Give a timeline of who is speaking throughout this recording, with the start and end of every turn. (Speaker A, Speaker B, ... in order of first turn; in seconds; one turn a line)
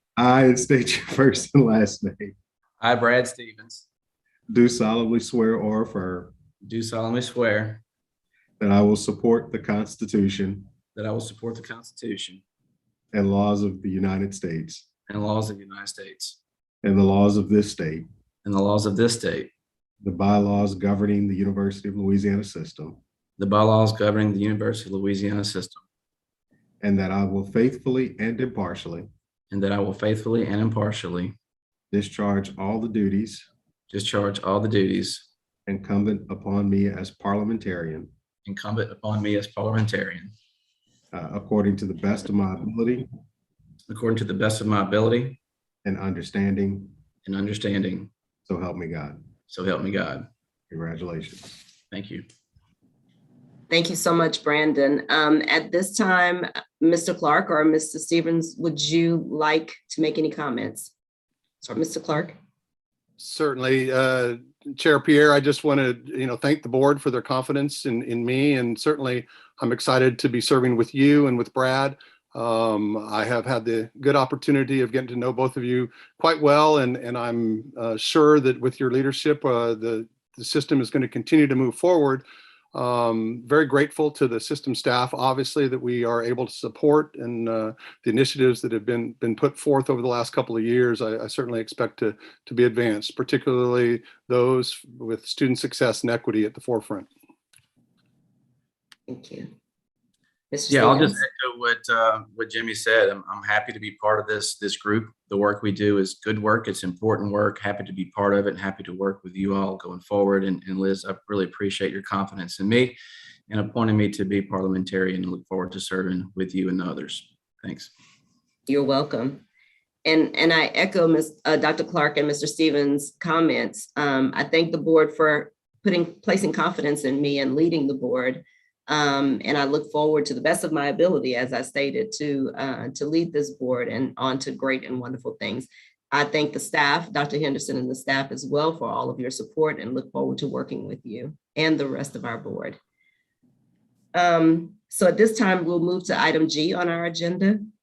Speaker A: 0.2-2.3
Speaker B: 2.8-3.8
Speaker A: 4.5-6.3
Speaker B: 6.6-7.8
Speaker A: 8.6-10.7
Speaker B: 10.9-12.4
Speaker A: 13.1-14.8
Speaker B: 15.1-16.4
Speaker A: 16.8-18.1
Speaker B: 18.4-19.5
Speaker A: 20.0-23.0
Speaker B: 23.4-25.8
Speaker A: 26.8-29.1
Speaker B: 29.5-31.3
Speaker A: 31.9-33.5
Speaker B: 33.9-35.2
Speaker A: 35.7-38.1
Speaker B: 38.5-40.3
Speaker A: 41.1-43.1
Speaker B: 43.9-45.4
Speaker A: 45.8-46.9
Speaker B: 47.2-48.1
Speaker A: 48.5-49.2
Speaker B: 49.5-50.3
Speaker A: 50.7-51.6
Speaker B: 51.9-52.2
Speaker C: 53.7-60.9
Speaker C: 61.6-62.4
Speaker D: 63.2-97.1
Speaker C: 99.1-99.5
Speaker C: 100.5-101.2
Speaker B: 100.7-112.9
Speaker B: 113.5-117.9
Speaker C: 118.7-119.4
Speaker C: 120.0-142.8
Speaker C: 144.1-147.6